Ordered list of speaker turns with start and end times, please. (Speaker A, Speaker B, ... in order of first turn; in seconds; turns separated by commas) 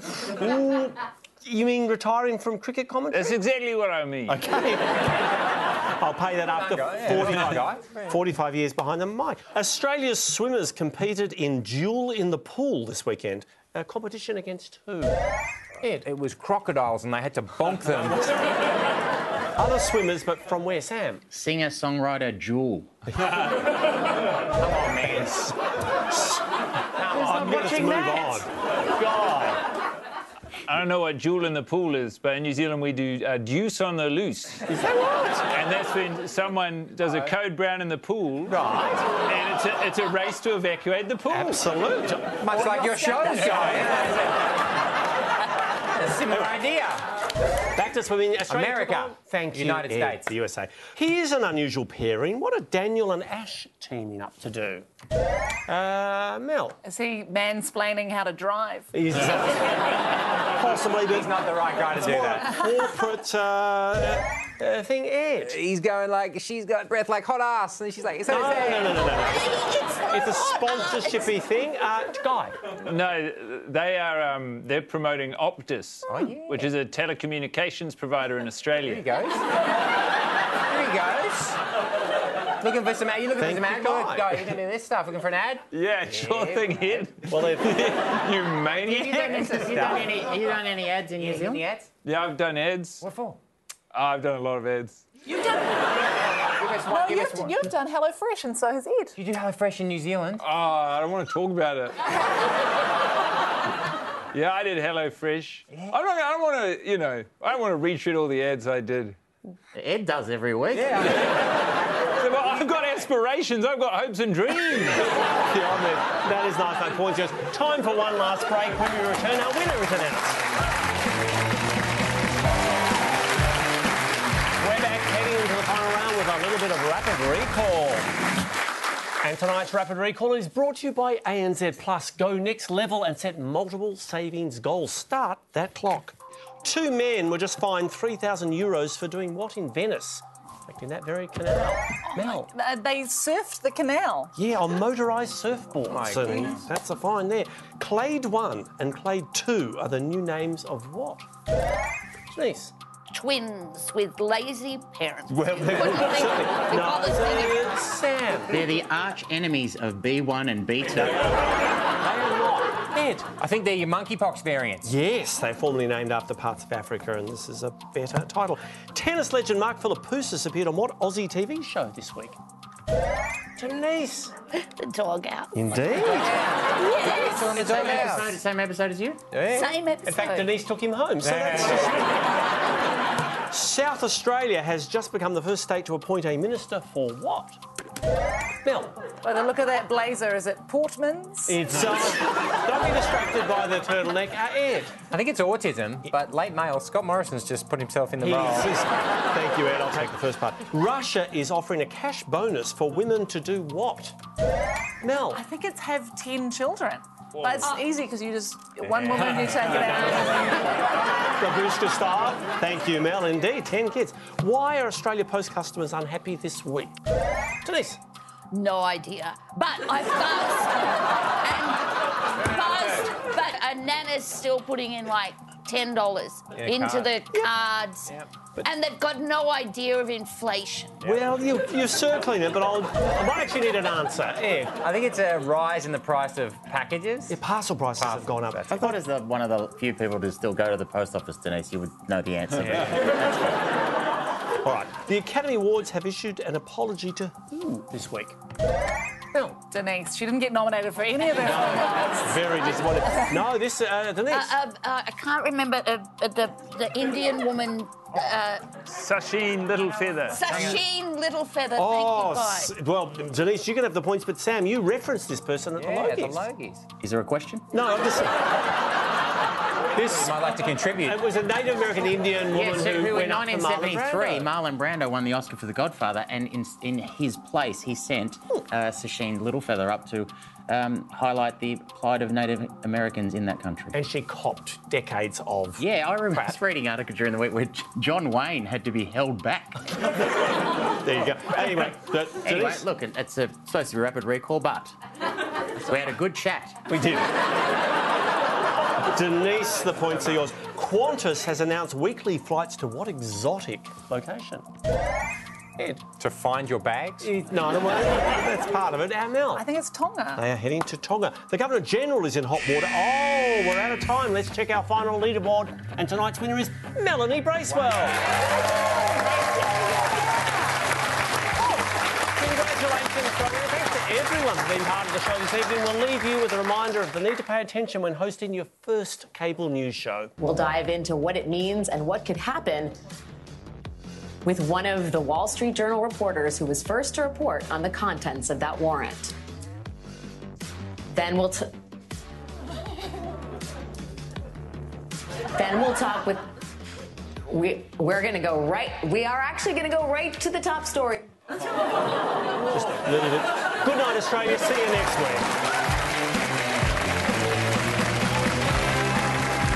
Speaker A: 0.2-3.4, Speaker B: 3.1-4.4, Speaker A: 4.3-5.1, Speaker A: 6.0-15.2, Speaker C: 6.5-8.1, Speaker C: 15.8-18.3, Speaker A: 19.6-21.2, Speaker D: 21.3-22.9, Speaker C: 24.6-25.4, Speaker A: 24.8-25.5, Speaker A: 26.1-26.4, Speaker C: 27.0-28.3, Speaker A: 27.1-29.6, Speaker B: 30.7-34.6, Speaker C: 34.7-35.4, Speaker B: 35.5-38.6, Speaker A: 38.5-39.0, Speaker B: 39.2-41.6, Speaker A: 41.3-42.3, Speaker C: 42.4-44.4, Speaker E: 42.8-43.6, Speaker A: 43.2-44.0, Speaker C: 45.9-47.0, Speaker A: 46.3-46.6, Speaker A: 47.8-54.8, Speaker C: 48.5-50.3, Speaker A: 55.7-56.8, Speaker E: 56.8-58.9, Speaker A: 58.9-59.7, Speaker A: 60.5-61.3, Speaker C: 61.1-62.6, Speaker A: 61.9-65.6, Speaker C: 65.4-69.2, Speaker A: 68.3-72.6, Speaker E: 69.8-70.2, Speaker B: 72.8-79.0, Speaker C: 76.1-76.7, Speaker C: 78.8-79.5, Speaker C: 80.6-81.6, Speaker C: 82.6-87.0, Speaker A: 83.4-84.5, Speaker B: 85.7-89.7, Speaker A: 87.3-88.0, Speaker C: 88.8-90.3, Speaker D: 88.9-91.7, Speaker C: 91.2-91.9, Speaker B: 92.0-93.0, Speaker C: 93.0-93.4, Speaker B: 93.9-95.0, Speaker C: 96.4-97.7, Speaker E: 96.9-99.2, Speaker C: 99.2-100.4, Speaker B: 100.4-102.0, Speaker B: 104.3-109.2, Speaker D: 109.7-111.1, Speaker C: 110.7-111.2, Speaker B: 112.2-115.0, Speaker A: 115.5-120.4, Speaker A: 124.6-128.1, Speaker A: 129.2-142.5, Speaker E: 142.0-144.3, Speaker A: 144.3-151.2, Speaker C: 145.8-146.6, Speaker A: 152.3-152.7, Speaker F: 153.1-157.8, Speaker A: 155.3-158.6, Speaker D: 158.5-161.3, Speaker A: 161.0-161.3, Speaker A: 161.9-163.3, Speaker C: 163.4-164.9, Speaker A: 164.8-172.3, Speaker A: 173.6-174.3, Speaker F: 174.6-175.5, Speaker A: 175.5-176.4, Speaker C: 175.8-178.4, Speaker F: 176.8-177.5, Speaker D: 177.3-179.2, Speaker C: 179.3-179.7, Speaker F: 179.5-180.5, Speaker A: 180.0-182.2, Speaker C: 181.2-182.0, Speaker A: 183.5-187.6, Speaker A: 188.6-188.9, Speaker E: 189.2-191.6, Speaker A: 191.5-195.0, Speaker C: 195.1-198.7, Speaker A: 198.2-204.2, Speaker A: 205.0-205.4, Speaker E: 205.3-210.7, Speaker B: 207.3-207.7, Speaker B: 209.2-210.0, Speaker A: 209.7-210.2, Speaker A: 211.4-216.9, Speaker A: 217.6-218.0, Speaker F: 218.5-220.9, Speaker F: 221.4-231.0, Speaker C: 226.6-227.1, Speaker A: 231.0-234.8, Speaker C: 234.8-237.4, Speaker A: 237.3-238.9, Speaker C: 238.0-238.9, Speaker D: 238.7-243.6, Speaker A: 244.6-248.4, Speaker E: 249.7-252.2, Speaker A: 251.3-254.6, Speaker E: 252.8-253.4, Speaker F: 254.3-258.7, Speaker B: 258.9-260.5, Speaker F: 260.3-262.7, Speaker C: 260.5-260.8, Speaker A: 260.5-260.8, Speaker A: 261.7-266.5, Speaker C: 265.7-266.9, Speaker D: 266.9-267.7, Speaker A: 267.7-268.3, Speaker C: 269.9-271.2, Speaker A: 270.0-274.5, Speaker D: 272.5-283.9, Speaker A: 283.9-286.6, Speaker D: 285.8-289.8, Speaker A: 291.0-292.9, Speaker D: 292.4-294.9, Speaker D: 295.8-296.8, Speaker A: 296.9-297.3, Speaker A: 299.1-304.6, Speaker A: 305.8-306.0, Speaker C: 306.2-307.3, Speaker A: 307.2-309.7, Speaker E: 309.5-310.4, Speaker A: 310.4-318.3, Speaker A: 322.3-330.3, Speaker G: 330.4-332.9, Speaker G: 334.4-339.3, Speaker G: 341.1-341.7, Speaker G: 345.5-346.4, Speaker G: 347.5-351.3, Speaker A: 352.6-355.5